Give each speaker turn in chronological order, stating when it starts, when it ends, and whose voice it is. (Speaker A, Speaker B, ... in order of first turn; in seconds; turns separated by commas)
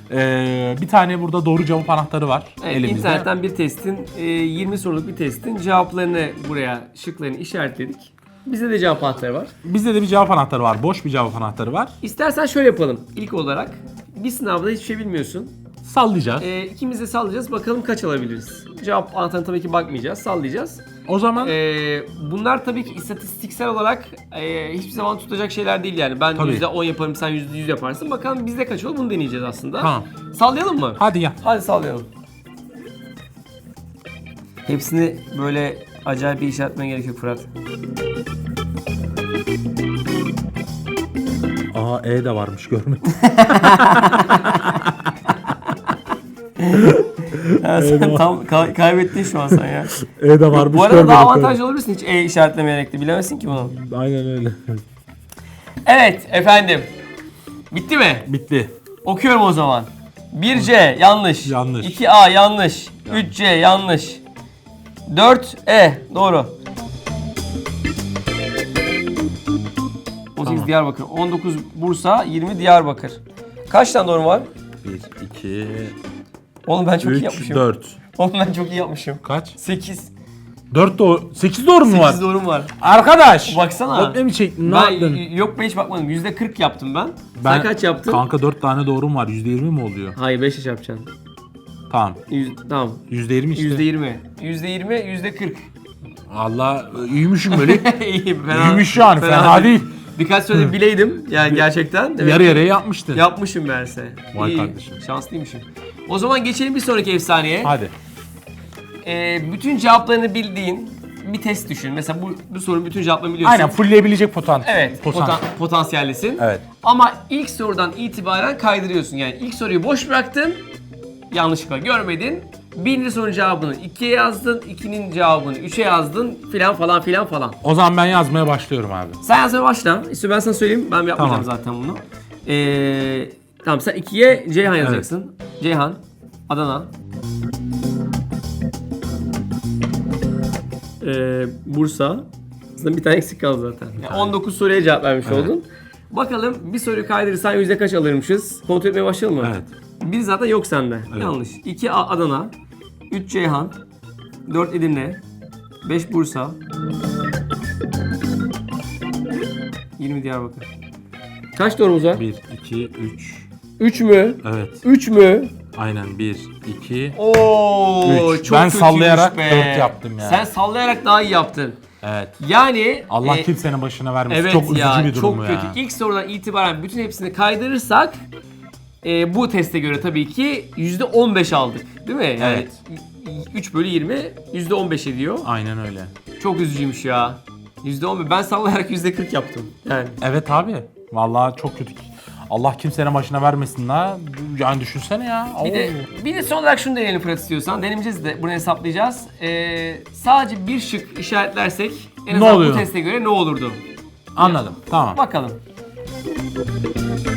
Speaker A: 0.1-3.3, Speaker B: 2.6-9.5, Speaker A: 9.6-11.9, Speaker B: 12.0-15.5, Speaker A: 15.8-16.5, Speaker B: 16.4-20.8, Speaker A: 21.1-21.6, Speaker B: 21.4-32.1, Speaker A: 26.4-26.6, Speaker A: 29.8-30.1, Speaker A: 31.0-31.4, Speaker B: 34.7-37.5, Speaker A: 41.7-45.3, Speaker B: 43.1-44.5, Speaker B: 46.6-49.9, Speaker A: 46.7-48.2, Speaker A: 49.9-51.6, Speaker B: 50.5-53.8, Speaker A: 53.7-54.8, Speaker B: 55.8-56.9, Speaker B: 57.7-58.3, Speaker A: 58.2-58.7, Speaker B: 59.0-64.2, Speaker A: 61.4-62.0, Speaker B: 65.1-66.5, Speaker B: 70.3-74.5, Speaker A: 70.4-70.7, Speaker A: 74.8-75.9, Speaker B: 76.7-80.1, Speaker A: 77.0-78.0, Speaker A: 79.2-79.5, Speaker A: 80.7-82.2, Speaker B: 81.8-82.7, Speaker A: 82.8-85.2, Speaker B: 83.4-88.2, Speaker A: 87.4-90.2, Speaker B: 90.1-91.1, Speaker A: 91.9-92.2, Speaker B: 92.3-95.7, Speaker A: 93.1-93.8, Speaker A: 96.3-97.9, Speaker B: 97.5-107.7, Speaker A: 98.5-99.9, Speaker A: 102.2-103.2, Speaker A: 104.3-105.0, Speaker A: 107.6-107.9, Speaker B: 109.0-113.8, Speaker A: 113.4-115.4, Speaker B: 114.6-120.6, Speaker A: 116.4-116.6, Speaker B: 121.3-127.6, Speaker A: 127.6-129.2, Speaker B: 129.2-136.9, Speaker A: 131.2-131.5, Speaker A: 134.8-135.1, Speaker B: 141.0-152.5, Speaker A: 144.0-144.3, Speaker A: 145.2-145.5, Speaker A: 149.4-149.7, Speaker B: 153.1-153.8, Speaker B: 154.4-155.2, Speaker B: 155.8-156.6, Speaker B: 160.0-160.7, Speaker B: 161.5-162.2, Speaker A: 162.2-163.5, Speaker B: 163.8-165.5, Speaker A: 164.4-164.8, Speaker A: 165.7-167.2, Speaker B: 167.2-171.8, Speaker A: 168.0-170.4, Speaker A: 172.0-172.4, Speaker B: 172.4-173.5, Speaker A: 173.1-175.8, Speaker B: 174.3-178.2, Speaker B: 179.0-185.5, Speaker A: 182.4-182.7, Speaker A: 185.4-186.1, Speaker B: 186.4-190.2, Speaker A: 190.2-196.1, Speaker B: 195.6-203.8, Speaker A: 202.3-202.9, Speaker A: 204.3-205.2, Speaker B: 204.4-205.6